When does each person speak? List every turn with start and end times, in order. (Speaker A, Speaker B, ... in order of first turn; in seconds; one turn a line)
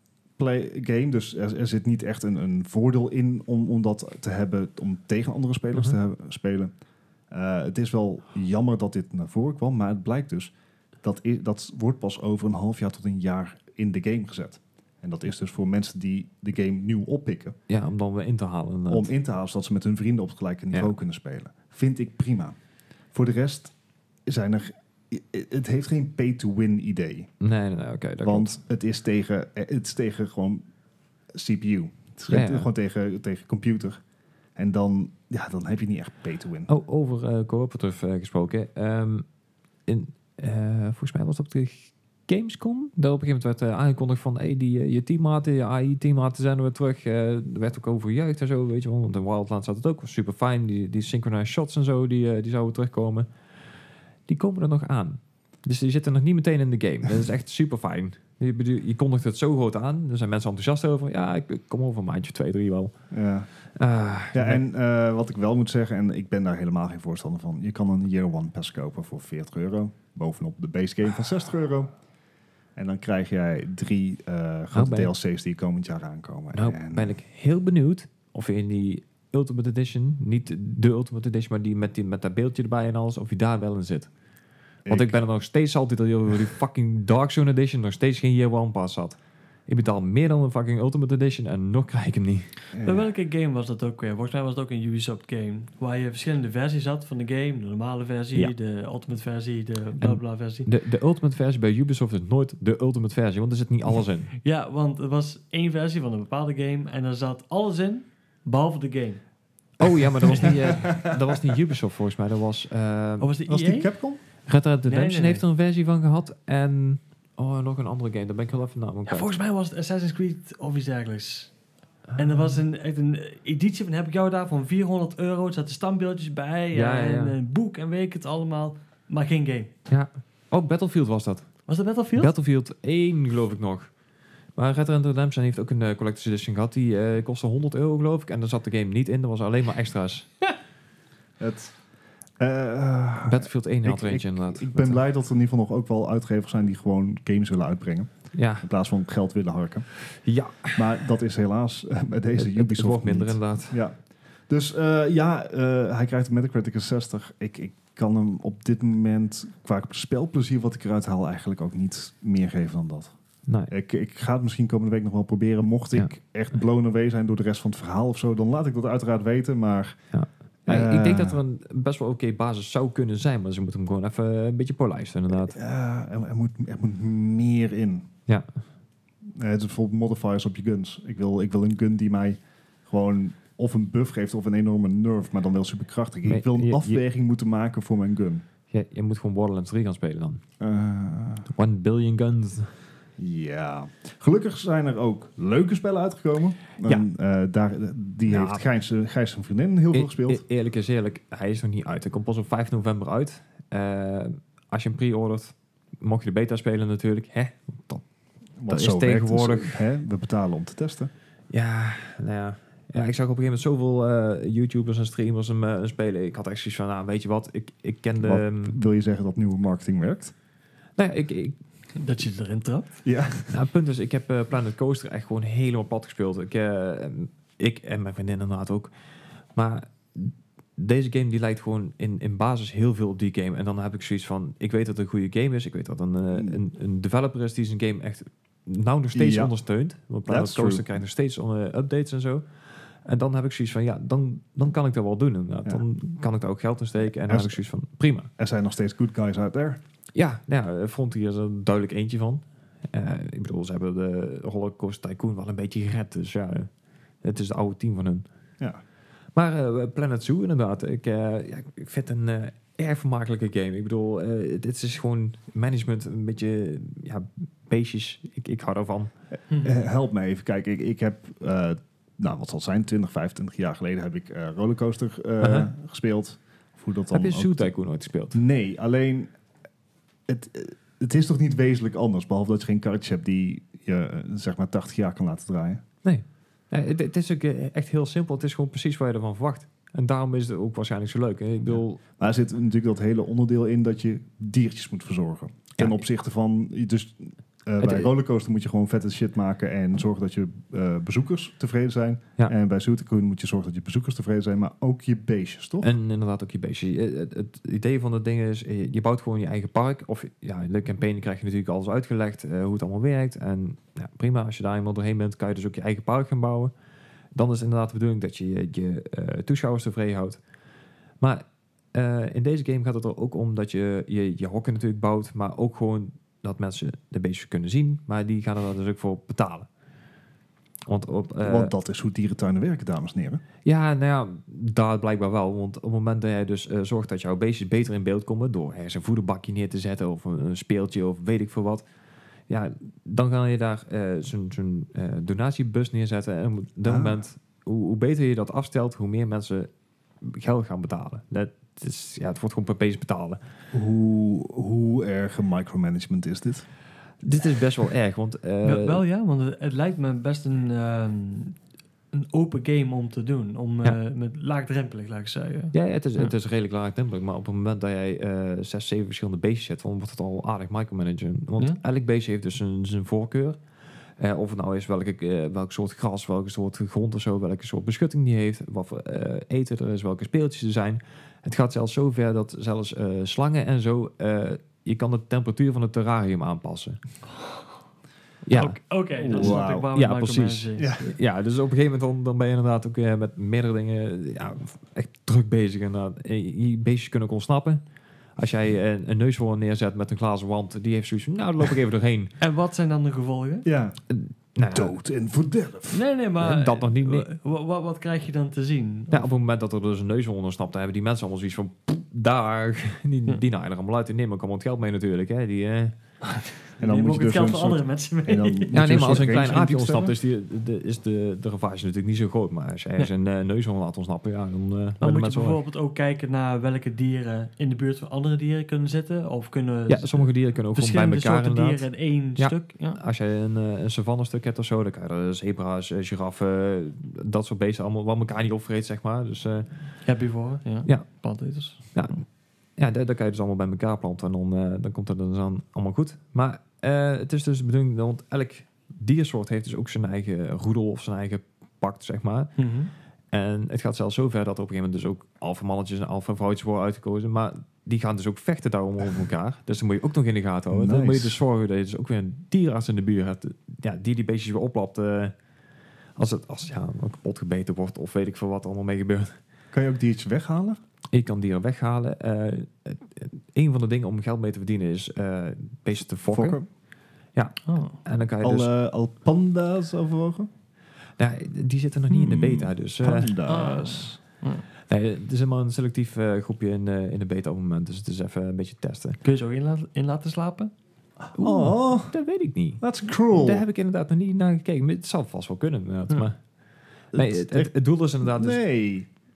Speaker A: 0.4-6.7
Speaker A: 7.3-10.5
Speaker A: 11.0-17.6
Speaker B: 17.7-19.1
Speaker A: 18.9-22.6
Speaker A: 23.1-23.8
Speaker A: 24.3-27.3
Speaker B: 27.4-28.6
Speaker A: 28.2-30.6
Speaker A: 31.3-34.0
Speaker B: 32.3-32.7
Speaker A: 34.6-36.7
Speaker B: 36.7-39.2
Speaker B: 39.9-53.3
Speaker B: 54.3-62.9
Speaker A: 63.1-63.5
Speaker B: 63.8-64.6
Speaker A: 64.3-71.9
Speaker A: 72.8-77.2
Speaker B: 74.7-75.1
Speaker B: 76.5-84.1
Speaker A: 84.9-85.2
Speaker B: 84.9-89.2
Speaker B: 89.7-92.5
Speaker A: 92.7-93.1
Speaker C: 92.8-100.7
Speaker B: 100.0-104.3
Speaker C: 104.4-109.2
Speaker B: 109.8-113.3
Speaker C: 110.3-110.5
Speaker A: 110.5-111.1
Speaker C: 113.2-113.9
Speaker A: 113.5-114.2
Speaker B: 114.5-119.3
Speaker C: 114.9-115.4
Speaker C: 119.1-121.5
Speaker B: 122.2-122.5
Speaker C: 122.2-129.7
Speaker B: 126.7-127.3
Speaker B: 129.9-133.9
Speaker C: 131.7-132.3
Speaker B: 134.6-140.4
Speaker A: 141.4-141.8
Speaker A: 142.4-149.9
Speaker B: 143.3-145.0
Speaker B: 148.3-148.7
Speaker B: 150.2-151.0
Speaker A: 150.8-154.0
Speaker B: 152.3-153.8
Speaker A: 154.5-163.2
Speaker B: 163.5-163.7
Speaker A: 163.7-170.0
Speaker B: 170.1-175.6
Speaker A: 170.7-171.4
Speaker A: 175.4-178.1
Speaker A: 179.3-188.4
Speaker B: 186.2-187.0
Speaker B: 188.7-190.4
Speaker A: 190.6-191.5
Speaker B: 191.5-192.7
Speaker A: 193.2-200.4
Speaker B: 198.3-198.6
Speaker B: 199.9-208.0
Speaker A: 208.6-211.1
Speaker B: 208.7-209.8
Speaker B: 211.5-218.8
Speaker A: 218.2-220.3
Speaker B: 221.0-221.6
Speaker C: 222.0-223.0
Speaker A: 223.0-223.6
Speaker B: 223.5-228.9
Speaker B: 229.6-242.4
Speaker A: 236.3-236.6
Speaker A: 239.1-239.5
Speaker A: 240.3-240.9
Speaker B: 243.1-248.3
Speaker A: 247.3-247.6
Speaker A: 248.4-249.8
Speaker B: 250.2-256.7
Speaker B: 257.2-258.3
Speaker B: 259.4-269.1
Speaker C: 269.5-269.9
Speaker A: 269.6-277.7
Speaker B: 275.4-275.7
Speaker B: 277.1-278.4
Speaker A: 278.3-279.3
Speaker A: 280.3-285.8
Speaker B: 286.0-292.0
Speaker A: 291.8-305.9
Speaker B: 297.8-298.1
Speaker B: 305.8-316.7
Speaker B: 317.3-320.4
Speaker B: 321.2-329.7
Speaker B: 330.9-331.7
Speaker A: 331.4-333.4
Speaker B: 333.6-341.8
Speaker B: 342.5-349.7
Speaker A: 346.9-347.2
Speaker B: 350.2-353.4
Speaker A: 353.7-356.7
Speaker B: 357.2-359.0
Speaker C: 358.6-361.6
Speaker C: 362.1-366.3
Speaker B: 365.7-373.6
Speaker B: 374.2-387.0
Speaker B: 388.5-388.8
Speaker C: 388.5-391.1
Speaker A: 389.2-389.9
Speaker B: 389.3-397.8
Speaker A: 390.8-391.1
Speaker B: 398.4-402.4
Speaker C: 402.4-403.7
Speaker A: 403.6-404.0
Speaker B: 404.1-404.9
Speaker A: 404.7-406.0
Speaker C: 405.9-409.3
Speaker B: 406.4-407.3
Speaker B: 409.1-415.9
Speaker C: 416.8-419.3
Speaker A: 416.8-420.1
Speaker B: 418.7-425.6
Speaker C: 425.0-433.0
Speaker B: 429.9-439.9
Speaker C: 440.0-442.2
Speaker B: 441.9-442.2
Speaker B: 442.8-452.5
Speaker C: 452.6-452.9
Speaker B: 453.3-465.3
Speaker A: 460.7-461.4
Speaker B: 466.2-469.4
Speaker A: 469.7-470.8
Speaker B: 471.1-476.6
Speaker A: 476.3-476.7
Speaker B: 477.4-478.7
Speaker C: 477.7-478.0
Speaker A: 478.4-480.5
Speaker B: 481.2-483.3
Speaker A: 482.1-484.2
Speaker C: 483.5-484.6
Speaker B: 484.9-489.2
Speaker C: 489.2-490.7
Speaker A: 491.3-492.1
Speaker B: 491.4-496.4
Speaker A: 492.8-493.6
Speaker A: 497.1-499.1
Speaker B: 497.1-498.6